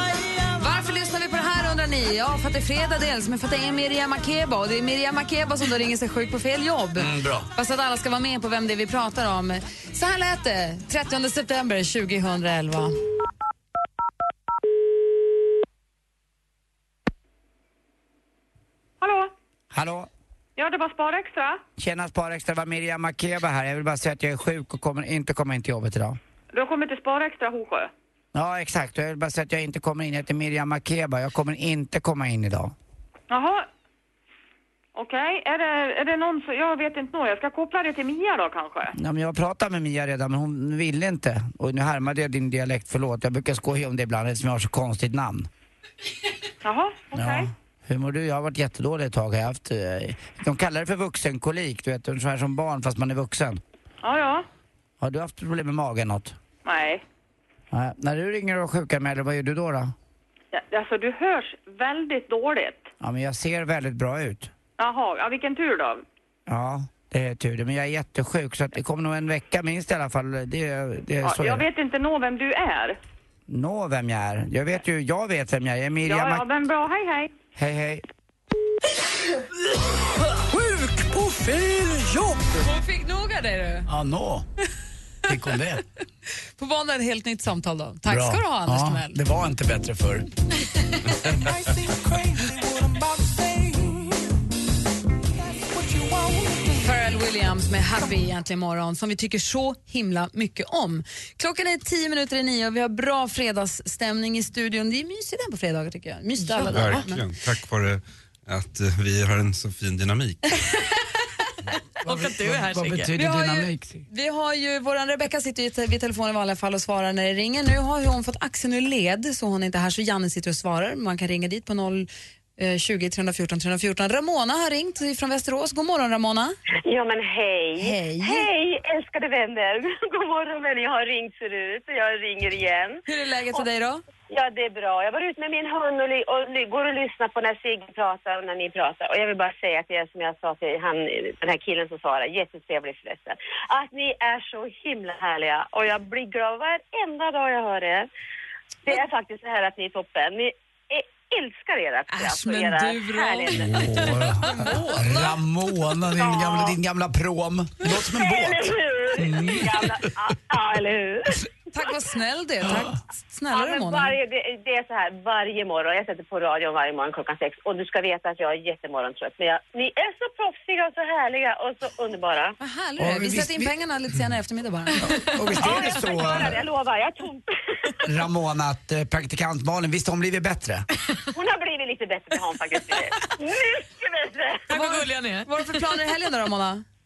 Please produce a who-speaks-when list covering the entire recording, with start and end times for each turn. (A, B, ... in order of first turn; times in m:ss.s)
0:00.6-0:13.0 A
0:07.0-0:07.5 B
0:19.0-0:19.3 C
0:19.7-0:20.1 B
0:20.6-0:21.6 C
0:21.8-0:26.2 B
0:26.5-0:27.9 C
0:28.3-0:32.8 B
0:33.3-0:33.7 C
0:35.0-0:38.9 C
0:39.0-0:45.5 B
0:46.6-0:47.5 C
0:47.1-0:53.6 B
0:54.0-0:54.5 C
0:55.0-0:56.4 B
0:56.6-0:57.0 C
0:57.7-0:59.9 B
1:00.5-1:02.9 C
1:03.0-1:04.5 B
1:04.8-1:06.0 C
1:06.5-1:11.7 B
1:11.2-1:13.0 C
1:13.5-1:16.5 B
1:16.0-1:17.3 C
1:17.6-1:18.0 B
1:20.4-1:22.6 D
1:22.6-1:23.9 A
1:23.9-1:24.5 B
1:25.3-1:25.8 B
1:26.6-1:29.2 A
1:28.1-1:30.3 B
1:31.4-1:34.1 D
1:35.7-1:36.7 D
1:36.8-1:47.2 A
1:46.4-1:47.1 D
1:46.7-1:50.6 E
1:52.0-1:54.1 B
1:52.0-1:53.1 D
1:53.2-2:06.6 A
2:06.8-2:13.0 F
2:07.8-2:08.5 A
2:13.1-2:14.0 A
2:14.3-2:28.1 F
2:28.9-2:33.8 F
2:32.1-2:35.3 A
2:33.6-2:40.0 B
2:34.5-2:35.1 D
2:36.2-2:36.8 F
2:38.0-2:41.4 F
2:41.7-2:44.2 A
2:43.5-2:52.6 F
2:52.6-2:55.1 A
2:53.0-2:53.7 B
2:55.0-2:56.6 B
2:55.6-2:57.5 F
2:58.0-3:00.9 B
3:01.3-3:04.6 F
3:04.7-3:05.5 D
3:04.7-3:06.8 A